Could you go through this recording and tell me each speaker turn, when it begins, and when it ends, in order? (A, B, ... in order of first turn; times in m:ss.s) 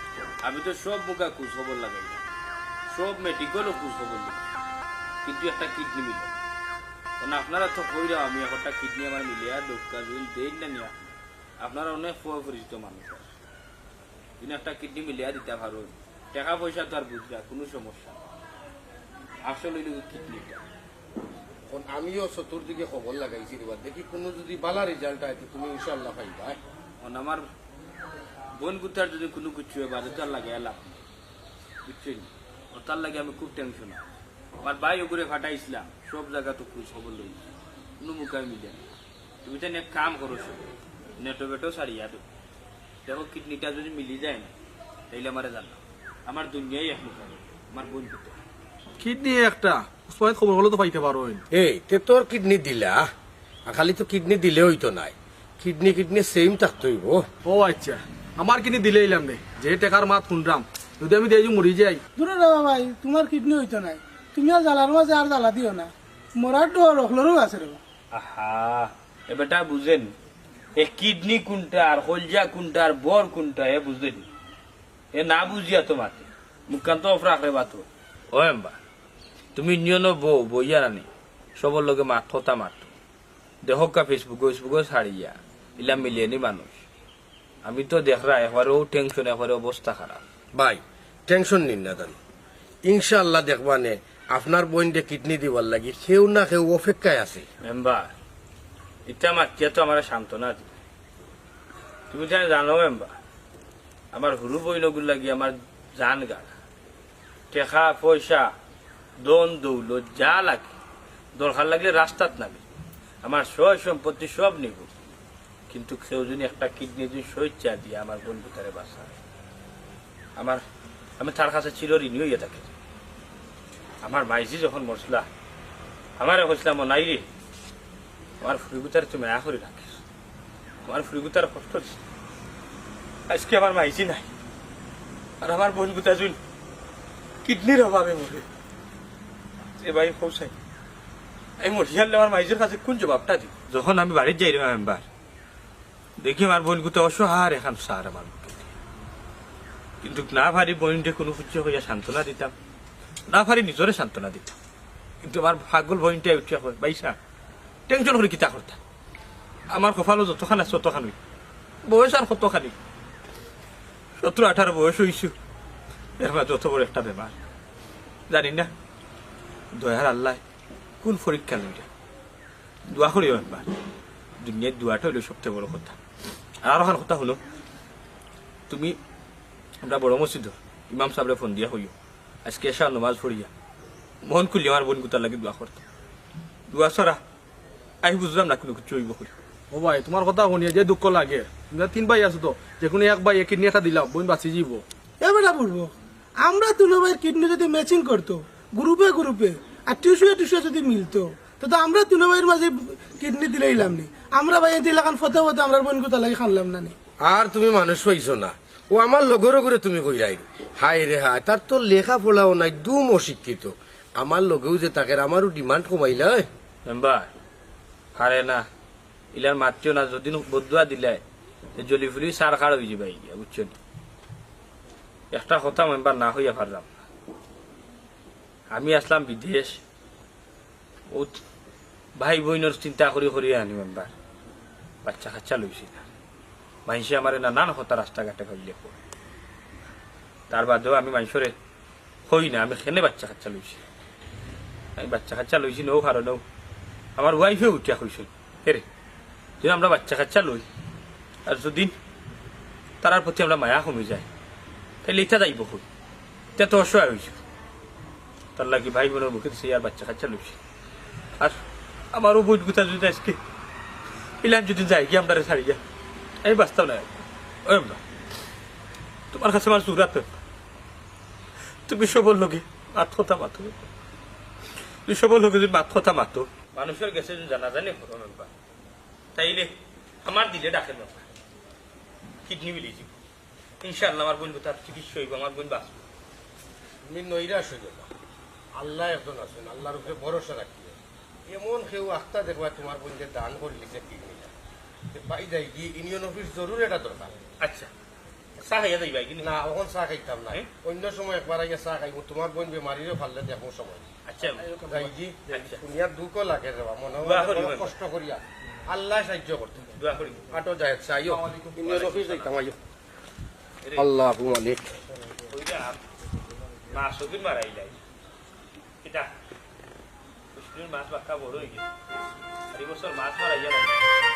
0:00.4-0:02.3 A
0:02.9-0:04.4 A
0:05.2-0:06.3 A
0:07.2-0:10.9 A
0:11.6-0:13.3 A
0:14.4-0:18.2 A
0:19.4-0:20.6 A
0:21.7-0:26.6 B
0:27.0-0:27.5 A
0:28.6-0:31.0 A
0:31.8-0:34.0 A
0:34.6-0:37.4 A
0:38.0-0:38.8 A
0:39.4-0:40.7 A
0:41.2-0:42.2 A
0:43.1-0:44.5 A
0:45.1-0:48.4 A
0:49.0-0:51.4 C
0:51.5-0:53.0 B
0:53.7-0:57.2 B
0:57.4-1:02.0 C
1:02.2-1:07.8 D
1:08.1-1:10.1 A
1:10.8-1:14.3 A
1:15.1-1:18.8 A
1:19.6-1:22.9 A
1:23.6-1:26.8 A
1:27.6-1:30.2 A
1:30.6-1:32.2 B
1:32.8-1:37.5 B
1:37.6-1:38.1 A
1:39.1-1:40.7 A
1:42.1-1:43.1 A
1:44.1-1:46.5 A
1:47.5-1:48.5 A
1:49.2-1:50.7 A
1:51.4-1:52.6 A
1:53.2-1:54.9 A
1:55.7-1:59.1 A
2:00.4-2:00.6 A
2:01.2-2:02.7 A
2:04.0-2:05.3 A
2:06.2-2:07.3 A
2:08.4-2:10.0 A
2:10.8-2:12.0 A
2:13.3-2:14.3 A
2:15.4-2:16.4 A
2:17.4-2:18.4 A
2:19.8-2:20.5 A
2:21.6-2:25.0 A
2:26.2-2:28.8 A
2:30.0-2:32.5 A
2:33.3-2:34.6 A
2:35.2-2:37.2 A
2:37.9-2:38.8 A
2:39.7-2:41.2 A
2:41.9-2:42.8 A
2:44.2-2:45.3 A
2:46.2-2:47.4 A
2:48.3-2:48.7 A
2:49.8-2:50.4 A
2:51.0-2:51.9 A
2:52.9-2:53.7 A
2:54.4-2:56.0 A
2:56.6-2:57.4 A
2:58.7-2:59.0 A
2:59.8-3:01.9 A
3:02.4-3:03.5 A
3:04.2-3:05.8 A
3:06.7-3:07.2 A
3:08.0-3:09.3 A
3:09.7-3:14.8 C
3:15.2-3:27.0 D
3:27.2-3:36.5 B
3:36.9-3:37.3 A
3:38.2-3:38.6 A
3:39.3-3:41.2 A
3:41.8-3:43.7 A
3:45.3-3:46.9 A
3:48.7-3:49.8 A
3:51.1-3:51.4 A
3:52.2-3:54.1 A
3:55.0-3:56.1 A
3:56.9-3:59.0 A
4:00.5-4:01.5 A
4:02.3-4:03.8 A
4:05.0-4:06.4 A
4:07.2-4:08.8 A
4:09.6-4:10.7 A
4:11.5-4:12.0 A
4:13.0-4:14.3 A
4:15.0-4:15.8 A
4:16.6-4:17.4 A
4:18.6-4:20.6 A
4:22.1-4:23.4 A
4:24.4-4:25.8 A
4:26.4-4:27.1 A
4:27.6-4:28.0 A
4:29.3-4:30.3 A
4:31.9-4:33.8 A
4:35.1-4:38.5 A
4:39.4-4:41.3 A
4:42.5-4:43.2 A
4:43.8-4:46.0 A
4:47.1-4:48.1 B
4:48.8-4:51.0 B
4:51.5-4:54.5 B
4:55.1-4:57.4 B
4:57.6-4:57.9 A
4:58.6-4:59.6 A
4:59.4-5:04.0 B
5:04.2-5:05.8 A
5:04.7-5:09.8 B
5:07.2-5:08.0 A
5:10.0-5:10.4 A
5:10.5-5:12.8 B
5:11.2-5:12.7 A
5:13.8-5:14.1 A
5:14.0-5:15.0 B
5:15.5-5:16.0 A
5:16.9-5:18.0 A
5:19.0-5:19.3 A
5:20.5-5:21.9 A
5:22.7-5:24.0 A